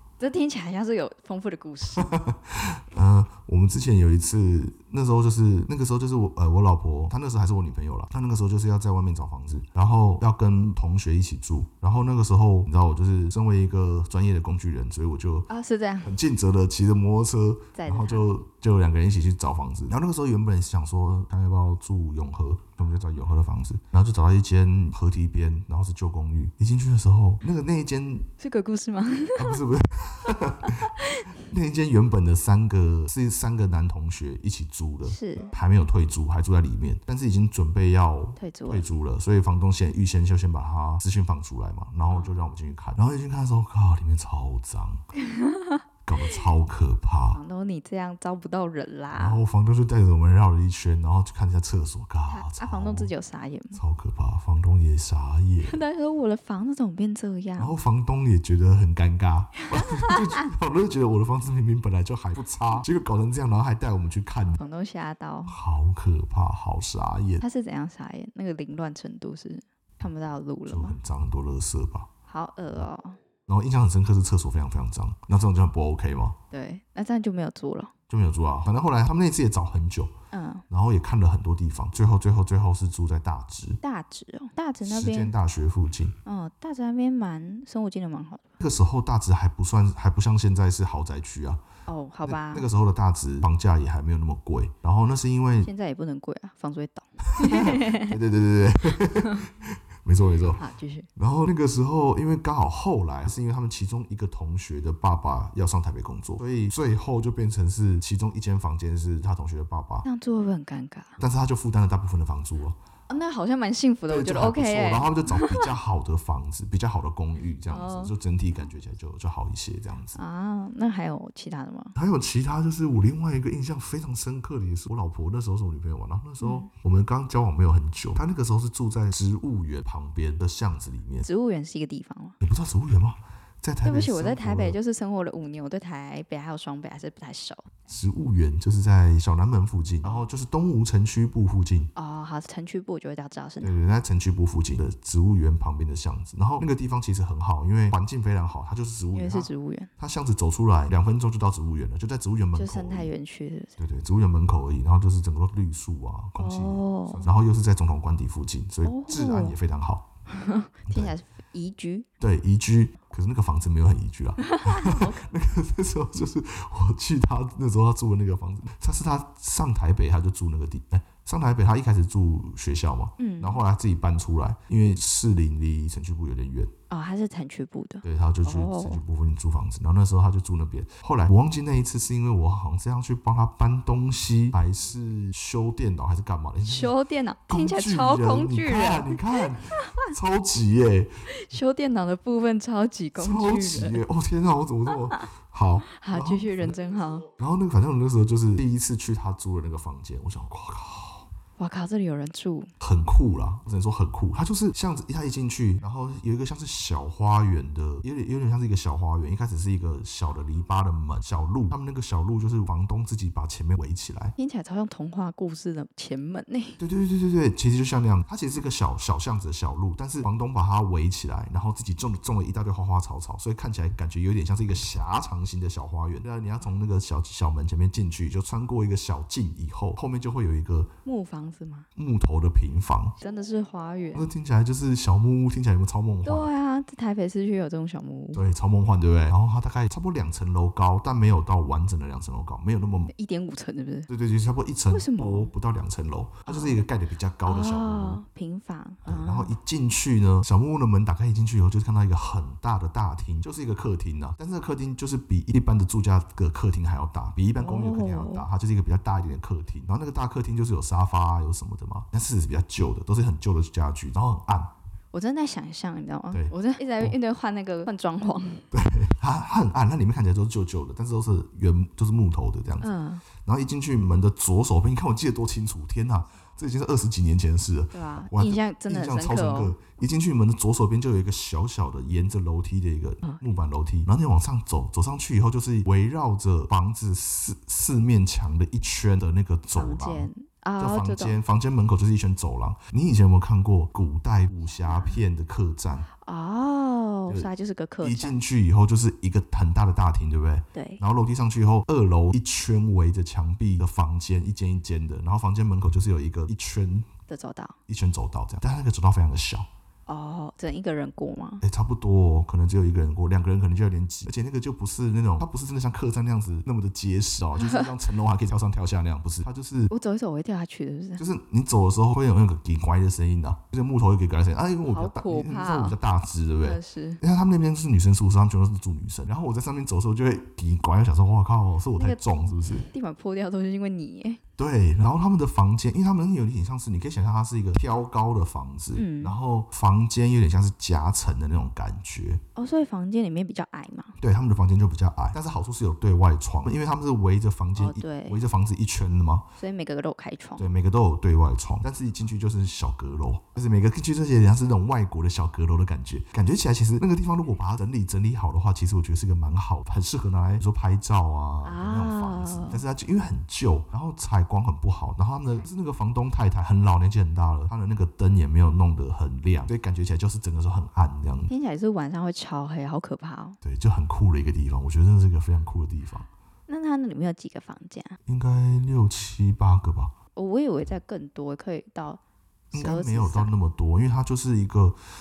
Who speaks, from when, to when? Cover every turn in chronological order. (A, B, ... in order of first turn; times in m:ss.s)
0:00.2-0:02.1 A
0:02.0-0:15.5 B
0:15.5-0:16.2 A
0:16.0-0:28.3 B
0:17.8-0:18.3 A
0:28.4-0:29.6 A
0:29.4-0:45.1 B
0:30.6-0:31.3 A
0:35.0-0:35.5 A
0:38.4-0:38.8 A
0:42.1-0:42.4 A
0:45.2-0:45.8 A
0:46.0-0:47.4 B
0:47.3-0:49.4 A
0:49.1-0:53.1 B
0:52.3-0:53.8 A
0:53.7-0:55.8 B
0:55.6-0:57.7 A
0:57.6-1:04.6 B
0:59.8-1:00.4 A
1:04.6-1:05.6 A
1:05.5-1:07.4 B
1:07.4-1:11.0 A
1:10.7-1:12.1 B
1:12.3-1:13.2 A
1:13.5-1:16.4 B
1:16.5-1:17.9 A
1:18.1-1:20.1 B
1:20.3-1:20.6 A
1:20.7-1:23.8 B
1:23.8-1:25.3 A
1:24.8-1:26.2 B
1:26.2-1:28.5 A
1:28.6-1:31.6 B
1:31.9-1:32.7 A
1:32.3-1:35.7 B
1:35.6-1:38.2 A
1:37.3-1:40.6 B
1:39.0-1:39.4 A
1:40.6-1:41.1 A
1:41.2-1:50.1 B
1:50.0-1:51.2 A
1:51.2-1:52.8 B
1:53.1-1:55.7 A
1:54.1-2:00.2 B
1:57.7-1:58.1 A
2:00.2-2:02.0 A
2:02.0-2:11.3 B
2:06.4-2:06.7 A
2:11.2-2:12.4 A
2:12.4-2:14.8 B
2:13.8-2:17.7 A
2:17.9-2:21.9 B
2:22.0-2:23.7 A
2:23.6-2:33.1 B
2:29.1-2:29.9 A
2:32.6-2:33.8 A
2:33.8-2:40.1 B
2:36.4-2:37.3 A
2:38.8-2:39.6 A
2:40.3-2:42.1 A
2:40.9-2:41.2 B
2:42.2-2:56.7 B
2:44.5-2:45.3 A
2:53.2-2:53.6 A
2:56.9-2:59.0 A
2:58.0-3:07.0 B
3:06.6-3:10.1 A
3:07.5-3:11.3 B
3:11.3-3:14.0 A
3:13.2-3:16.7 B
3:15.9-3:17.3 A
3:17.4-3:21.3 B
3:21.6-3:22.7 A
3:22.8-3:34.4 B
3:34.4-3:36.8 A
3:36.8-3:50.9 B
3:51.0-3:51.9 A
3:52.0-3:53.2 B
3:53.2-3:54.3 A
3:54.1-3:56.5 B
3:56.2-3:58.4 A
3:58.3-4:03.1 B
4:03.1-4:04.1 A
4:04.1-4:08.2 B
4:04.9-4:05.5 A
4:06.5-4:06.8 A
4:07.4-4:09.6 A
4:09.1-4:24.7 B
4:17.6-4:18.5 A
4:25.1-4:28.7 A
4:26.3-4:27.2 B
4:28.7-4:56.1 B
4:32.8-4:33.2 A
4:37.9-4:39.7 A
4:49.7-4:51.4 A
4:54.8-4:55.2 A
4:56.2-4:58.4 A
4:58.0-5:07.1 B
5:00.7-5:01.0 A
5:07.3-5:07.8 A
5:07.9-5:09.7 B
5:10.1-5:11.6 A
5:11.6-5:19.9 B
5:17.6-5:17.9 A
5:19.9-5:21.2 A
5:21.2-5:32.9 B
5:24.8-5:26.0 A
5:26.6-5:27.2 A
5:32.0-5:34.4 A
5:34.6-5:42.4 B
5:39.0-5:39.4 A
5:42.6-5:44.2 A
5:44.2-5:49.5 B
5:47.8-5:48.4 A
5:49.6-5:50.7 A
5:50.6-6:11.5 B
6:01.6-6:02.8 A
6:11.5-6:13.6 A
6:13.6-6:16.3 B
6:16.7-6:18.2 A
6:18.3-6:20.2 B
6:20.4-6:22.2 A
6:22.7-6:23.5 A
6:22.7-6:25.0 B